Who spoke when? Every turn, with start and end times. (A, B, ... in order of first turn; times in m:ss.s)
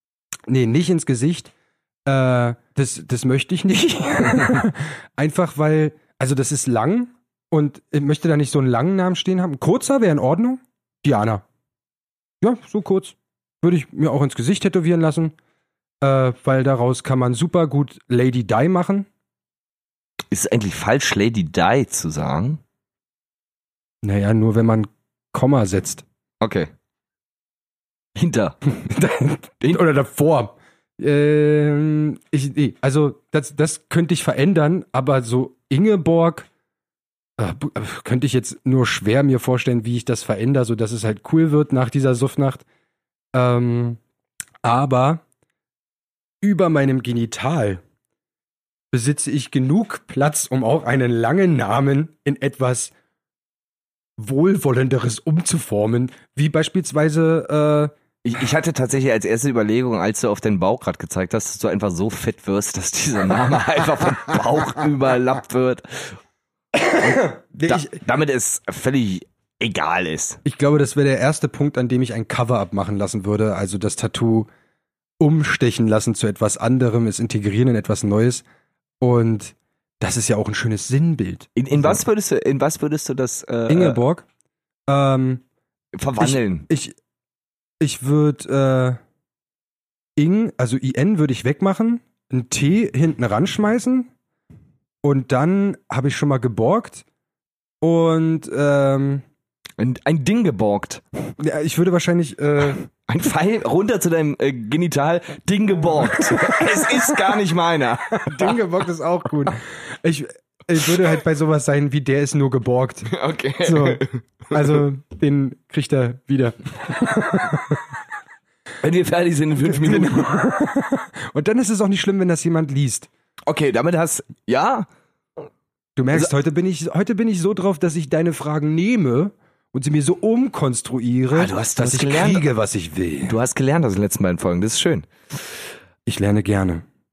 0:00.5-0:01.5 A
0:02.1-0:11.4 A
0:12.4-0:15.4 A
0:16.0-0:19.1 A
0:20.3-0:22.6 B
0:24.0-0:26.0 A
0:26.4-0:26.7 B
0:28.2-0:28.6 B
0:28.7-0:36.5 A
0:37.4-0:42.6 A
0:43.3-0:44.0 A
0:44.6-0:45.2 A
0:46.4-0:47.8 A
0:48.9-0:52.9 A
0:54.2-0:57.9 A
0:58.2-1:06.2 B
1:06.8-1:08.0 A
1:07.7-1:10.4 B
1:10.4-1:14.5 A
1:15.2-1:18.4 A
1:19.0-1:22.0 A
1:21.6-1:24.0 B
1:23.7-1:24.3 A
1:24.9-1:25.4 A
1:26.0-1:26.7 B
1:26.2-1:27.0 A
1:27.8-1:29.0 A
1:30.2-1:34.1 A
1:35.0-1:37.0 A
1:37.8-1:39.2 A
1:39.8-1:41.0 B
1:41.4-1:42.8 A
1:43.0-1:48.6 B
1:46.2-1:47.1 A
1:48.2-1:53.1 A
1:53.1-1:54.7 B
1:53.6-1:57.9 A
1:58.8-2:00.3 B
1:59.6-2:03.1 A
2:03.5-2:04.9 B
2:06.0-2:13.4 A
2:11.3-2:12.4 B
2:13.2-2:15.1 B
2:16.1-2:16.8 A